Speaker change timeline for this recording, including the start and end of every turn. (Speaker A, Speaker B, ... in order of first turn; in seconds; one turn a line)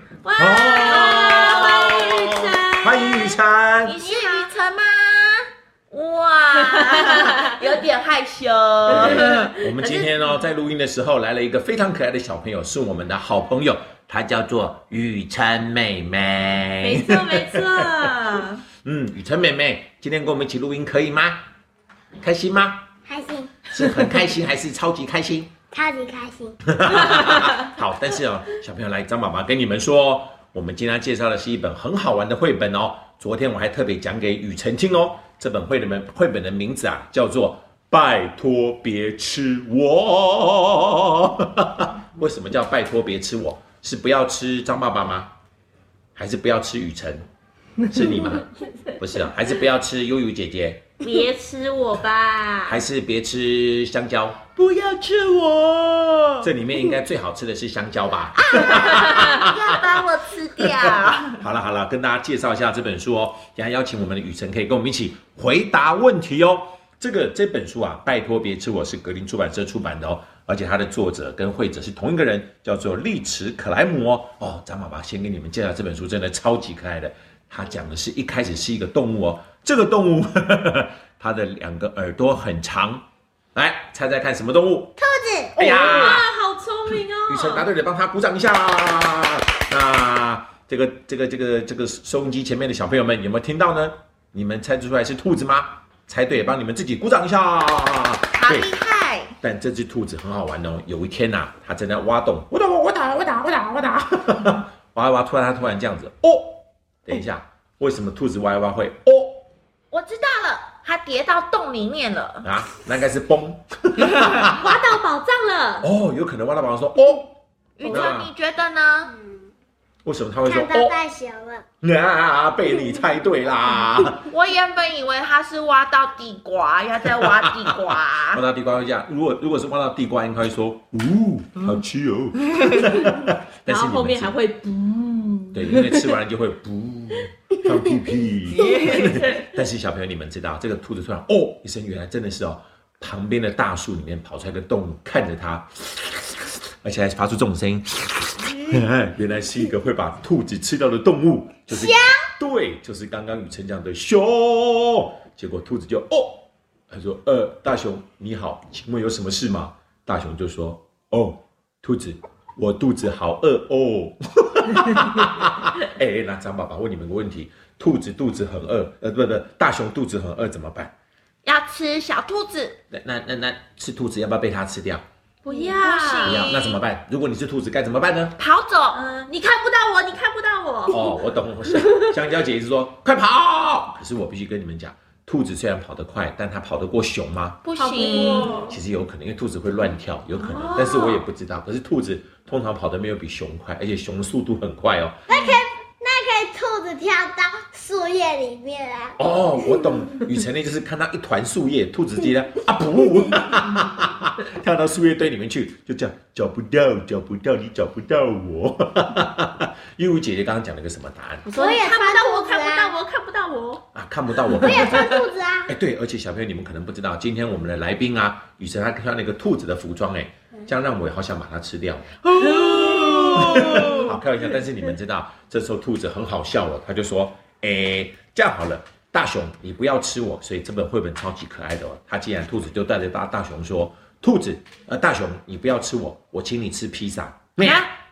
Speaker A: 0.2-2.3
Speaker B: 0.4-4.0
Speaker C: 0.8-3.4
Speaker A: 3.8-10.1
Speaker D: 4.1-4.4
Speaker C: 7.3-7.5
Speaker B: 8.9-18.1
Speaker C: 9.0-9.7
Speaker C: 16.8-18.6
Speaker B: 18.8-21.4
Speaker B: 22.2-22.9
Speaker D: 23.1-23.6
Speaker B: 23.7-25.6
Speaker D: 25.7-26.6
Speaker B: 26.7-45.3
Speaker B: 46.2-47.2
Speaker B: 47.9-50.9
Speaker C: 51.0-52.9
Speaker B: 52.7-54.6
Speaker A: 54.6-56.2
Speaker B: 56.4-60.0
Speaker A: 58.4-61.4
Speaker C: 58.9-59.4
Speaker B: 60.9-83.0
Speaker B: 83.5-85.0
Speaker D: 85.0-86.2
Speaker C: 85.6-87.7
Speaker B: 85.6-86.3
Speaker B: 87.3-98.7
Speaker A: 98.3-99.3
Speaker B: 99.4-109.5
Speaker A: 109.9-112.5
Speaker B: 112.4-114.7
Speaker C: 114.6-115.9
Speaker B: 115.8-117.4
Speaker A: 117.8-119.1
Speaker B: 117.9-118.3
Speaker B: 120.0-121.0
Speaker D: 120.5-121.7
Speaker B: 121.8-124.3
Speaker A: 124.3-128.4
Speaker B: 127.2-134.4
Speaker C: 133.7-136.2
Speaker B: 135.5-170.9
Speaker C: 138.5-139.5
Speaker D: 151.7-152.2
Speaker A: 171.4-172.8
Speaker B: 172.9-175.1
Speaker C: 175.4-176.6
Speaker A: 175.6-176.8
Speaker B: 176.2-178.4
Speaker A: 178.4-179.0
Speaker C: 178.9-181.2
Speaker B: 180.9-187.6
Speaker C: 181.8-182.1
Speaker A: 187.6-188.6
Speaker C: 187.8-188.8
Speaker B: 188.7-195.3
Speaker C: 190.3-191.2
Speaker D: 195.3-199.2
Speaker B: 199.2-211.5
Speaker C: 211.4-213.8
Speaker D: 211.5-212.9
Speaker B: 213.9-215.1
Speaker C: 214.4-215.2
Speaker D: 214.6-215.8
Speaker B: 215.7-222.3
Speaker C: 222.3-224.1
Speaker D: 222.6-223.2
Speaker B: 223.1-237.9
Speaker A: 237.6-237.9